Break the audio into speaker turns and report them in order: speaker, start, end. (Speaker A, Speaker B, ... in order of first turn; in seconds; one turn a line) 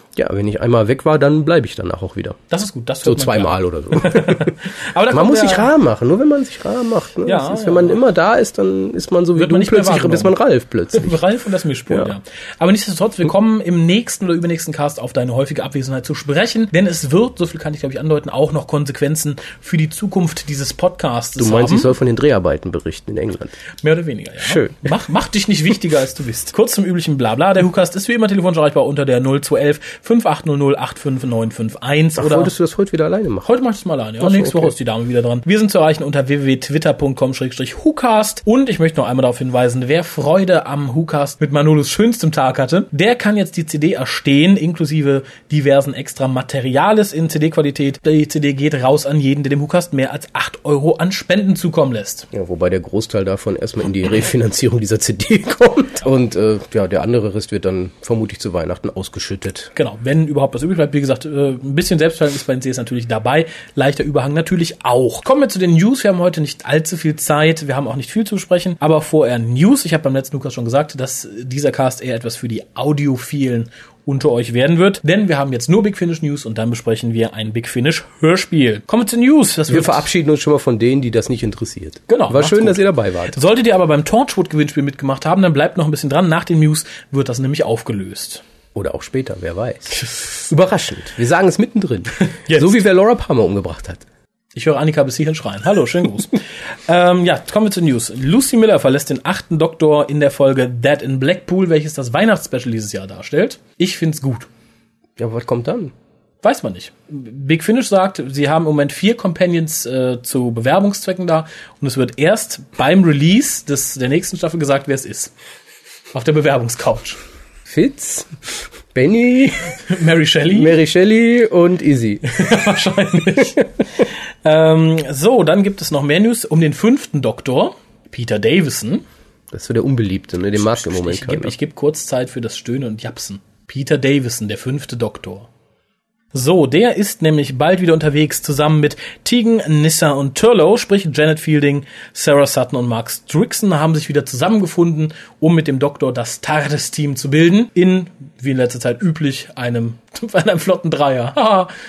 Speaker A: 0.2-2.4
Speaker B: 2.5-5.7
Speaker A: 3.0-4.6
Speaker A: 5.1-11.2
Speaker B: 7.2-8.0
Speaker B: 9.4-10.3
Speaker B: 10.9-21.9
Speaker A: 21.4-23.5
Speaker B: 23.8-32.5
Speaker A: 24.4-24.9
Speaker A: 32.2-33.5
Speaker B: 33.4-52.3
Speaker A: 34.2-34.7
Speaker A: 52.3-59.7
Speaker B: 59.8-80.1
Speaker A: 79.7-83.4
Speaker B: 82.1-88.4
Speaker A: 88.8-94.0
Speaker B: 92.4-92.7
Speaker B: 94.5-104.5
Speaker A: 105.2-105.9
Speaker B: 106.4-115.3
Speaker B: 116.1-117.2
Speaker A: 117.7-119.8
Speaker B: 119.9-120.8
Speaker A: 120.5-122.7
Speaker B: 122.3-123.6
Speaker A: 123.3-123.6
Speaker B: 124.4-129.0
Speaker A: 129.5-131.6
Speaker B: 130.6-135.5
Speaker B: 136.3-151.7